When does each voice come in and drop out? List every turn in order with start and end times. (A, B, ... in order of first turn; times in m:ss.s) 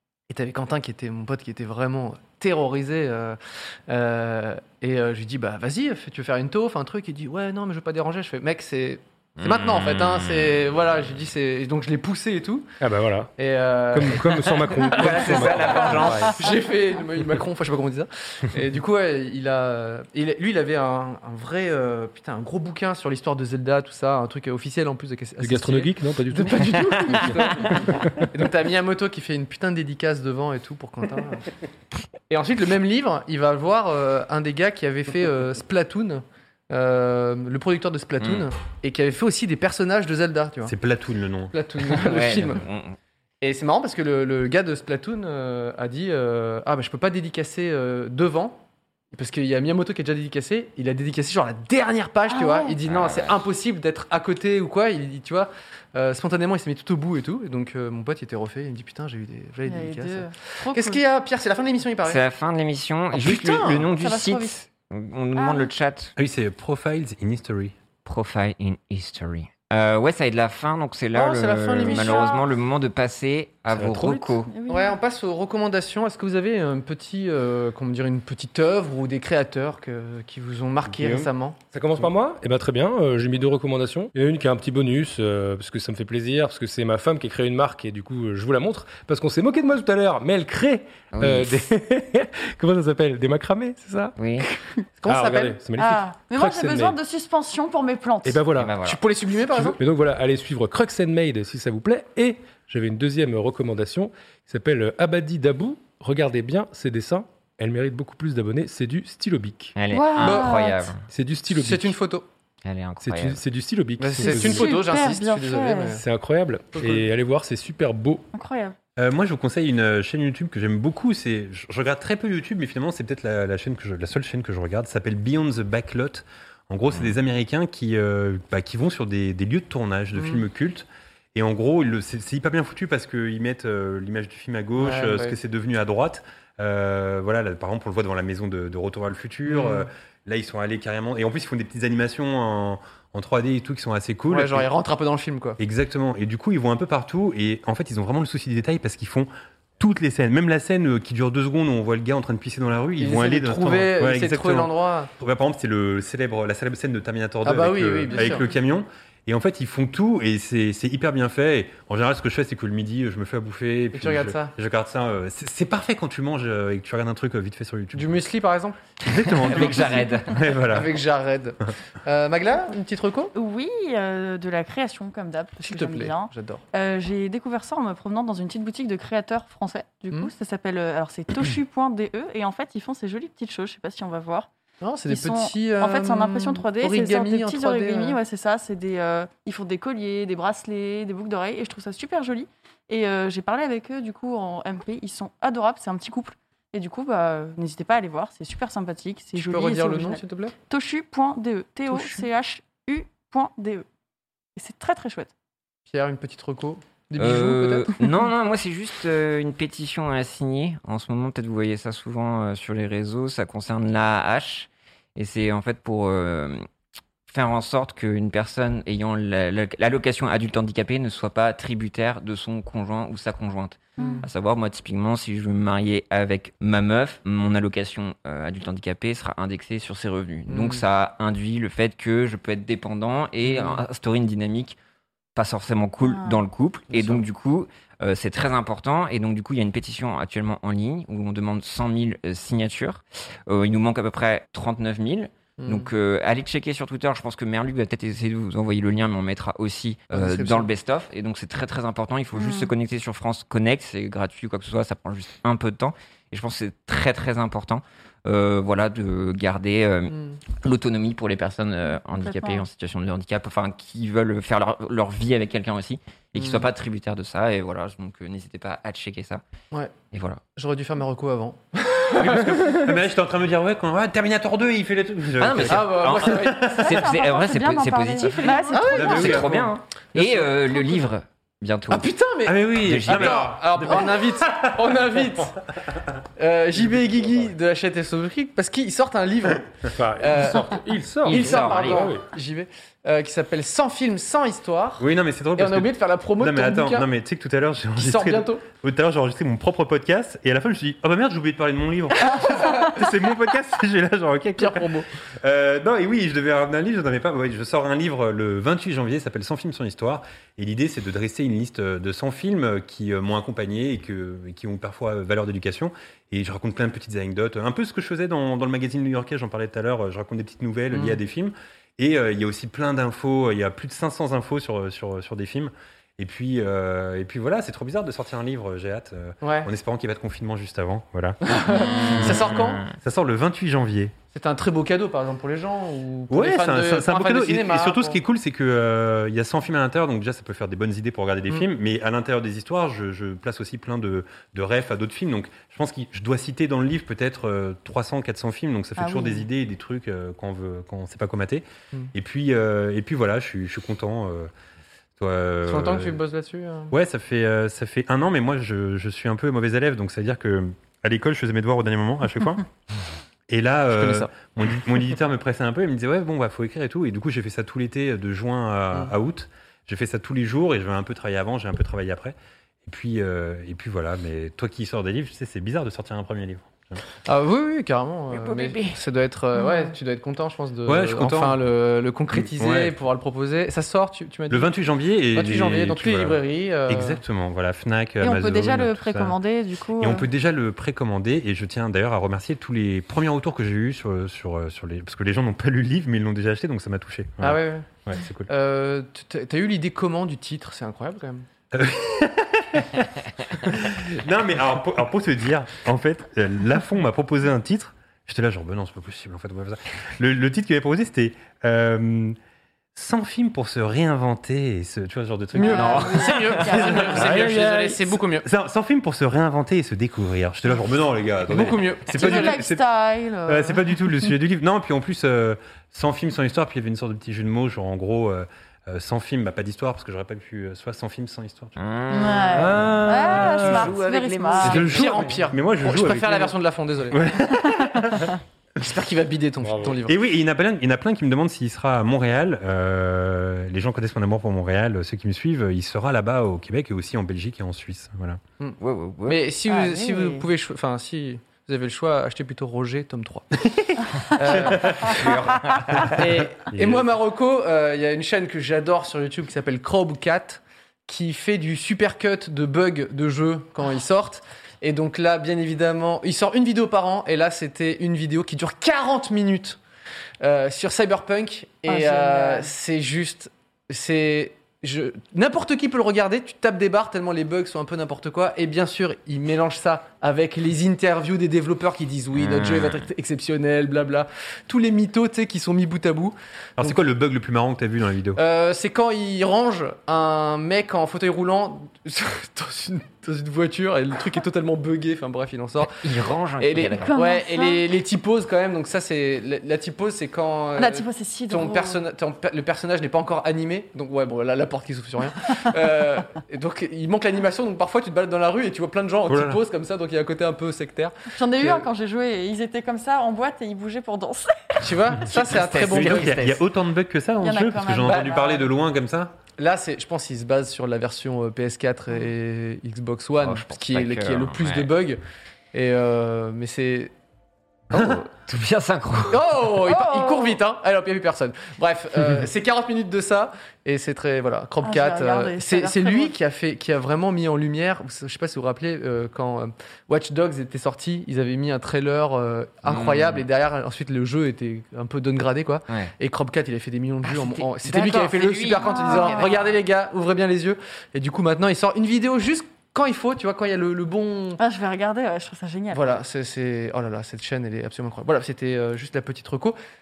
0:00.3-0:12.7 A
0:09.4-0:10.5 B
0:12.8-0:13.3 C
0:13.4-0:31.5 A
0:13.9-0:16.3 C
0:14.9-0:16.4 B
0:25.4-0:28.3 C
0:32.3-0:40.7 A
0:38.2-0:38.5 B
0:40.6-0:41.5 D
0:41.5-0:42.6 A
0:41.8-0:43.0 B
0:43.4-0:48.6 A
0:49.1-1:02.2 A
0:52.3-0:52.8 E
0:52.8-0:53.4 B
0:59.6-1:01.0 E
1:02.0-1:06.1 B
1:03.1-1:03.9 A
1:03.9-1:04.6 E
1:05.4-1:05.7 E
1:06.2-1:07.7 D
1:08.0-1:14.5 B
1:11.1-1:12.3 A
1:11.8-1:12.4 E
1:13.7-1:14.4 C
1:14.5-1:15.0 E
1:14.7-1:21.6 A
1:20.9-1:34.1 C
1:31.1-1:31.5 B
1:34.2-1:34.5 B
1:34.4-1:35.6 A
1:35.0-1:37.0 C
1:35.8-1:38.4 E
1:38.2-1:38.8 C
1:38.5-1:39.0 B
1:38.8-1:39.8 A
1:39.5-1:49.7 C
1:49.8-1:51.0 B
1:49.9-1:50.8 E
1:50.2-1:50.6 A
1:51.1-1:52.0 C
1:51.5-1:52.2 A
1:52.6-1:53.4 B
1:53.0-1:54.7 C
1:54.0-1:56.0 A
1:54.2-1:56.0 E
1:56.0-1:58.2 C
1:56.8-1:57.0 A
1:58.3-1:58.8 E
1:59.0-2:24.7 D
2:10.2-2:10.4 A
2:14.8-2:15.4 A
2:19.4-2:19.9 A
2:24.3-2:25.6 A
2:25.6-2:48.2 D
2:33.0-2:35.1 A
2:37.4-2:38.5 A
2:38.1-2:38.4 E
2:43.9-2:44.5 A
2:47.9-2:48.8 A
2:49.0-2:50.9 D
2:49.4-2:50.3 B
2:50.6-2:53.3 A
2:53.3-3:04.5 E
2:55.6-2:56.6 A
3:04.8-3:08.2 A
3:05.1-3:23.8 E
3:19.4-3:20.5 A
3:21.9-3:22.2 A
3:24.6-3:25.3 E
3:25.9-3:27.9 A
3:27.2-3:36.6 B
3:37.3-3:54.8 B
3:44.0-3:44.2 A
3:50.5-3:50.8 A
3:53.4-3:53.8 A
3:55.3-4:29.4 B
3:56.0-3:56.4 E
3:56.9-3:57.2 A
4:05.6-4:05.9 A
4:10.1-4:10.7 A
4:12.4-4:12.7 E
4:20.1-4:20.4 A
4:22.2-4:22.6 E
4:26.4-4:26.6 A
4:30.1-4:30.4 B
4:30.5-4:32.9 A
4:32.2-4:36.9 D
4:35.4-4:42.1 B
4:35.6-4:36.7 A
4:36.7-4:39.4 E
4:38.7-4:41.0 A
4:38.9-4:39.7 D
4:41.9-4:45.6 A
4:42.4-4:44.7 D
4:42.8-4:43.6 B
4:46.4-4:57.1 A
4:49.9-4:52.2 C
4:51.2-4:52.2 B
4:55.0-5:31.4 D
4:58.0-4:58.7 A
5:02.3-5:03.0 A
5:04.6-5:05.1 A
5:20.9-5:21.2 A
5:29.4-5:29.7 A
5:31.4-5:32.9 A
5:31.7-5:32.4 E
5:32.0-5:34.1 D
5:32.2-5:32.9 B
5:34.3-5:38.2 A
5:36.3-5:54.5 D
5:49.0-5:49.5 E
5:55.2-5:56.2 D
5:55.6-5:56.9 A
5:56.9-6:02.6 D
6:03.5-6:17.0 D
6:03.9-6:04.3 A
6:17.2-6:27.2 A
6:18.3-6:19.0 B
6:19.5-6:19.9 E
6:20.8-6:21.6 D
6:22.3-6:23.0 D
6:24.5-6:29.4 D
6:28.2-6:30.2 E
6:30.0-6:38.5 D
6:37.4-6:37.9 A
6:38.5-6:41.5 A
6:41.7-6:52.4 D
6:52.9-6:57.6 D
6:55.5-6:58.4 A
6:55.5-6:57.3 E
6:57.1-6:58.0 C
6:58.4-7:02.8 D
7:01.4-7:02.6 A
7:02.1-7:04.2 E
7:03.4-7:11.7 D
7:11.8-7:15.3 B
7:12.1-7:14.9 E
7:12.5-7:14.0 C
7:14.6-7:17.4 A
7:14.6-7:16.5 D
7:17.1-7:18.3 D
7:17.7-7:17.9 E
7:18.8-7:20.2 A
7:19.6-7:20.0 C
7:20.0-7:28.4 D
7:28.6-7:33.6 A
7:28.8-7:29.4 B
7:29.7-7:30.4 E
7:34.3-7:35.3 A
7:34.6-7:35.3 D
7:35.0-7:36.2 B
7:36.0-7:37.1 D
7:36.1-7:49.8 A
7:50.4-8:06.9 A
7:51.9-7:52.7 E
8:02.3-8:03.1 B
8:06.8-8:08.4 D
8:08.3-8:16.0 A
8:15.9-8:17.1 B
8:16.6-8:31.8 A
8:17.0-8:17.8 E
8:20.8-8:22.0 E
8:29.3-8:29.6 D
8:31.3-8:34.8 E
8:34.8-8:36.6 A
8:35.3-8:36.6 B
8:35.7-8:39.3 D
8:37.4-8:38.7 E
8:38.0-8:38.4 A
8:39.6-8:45.2 A
8:43.4-8:44.9 B
8:45.7-8:47.1 A
8:47.9-8:49.6 B
8:49.3-9:14.6 A
8:49.8-8:50.6 E
8:54.8-8:56.3 E
9:02.8-9:03.4 B
9:07.3-9:09.6 B
9:08.8-9:09.7 E
9:14.6-9:16.1 E
9:15.9-9:19.8 A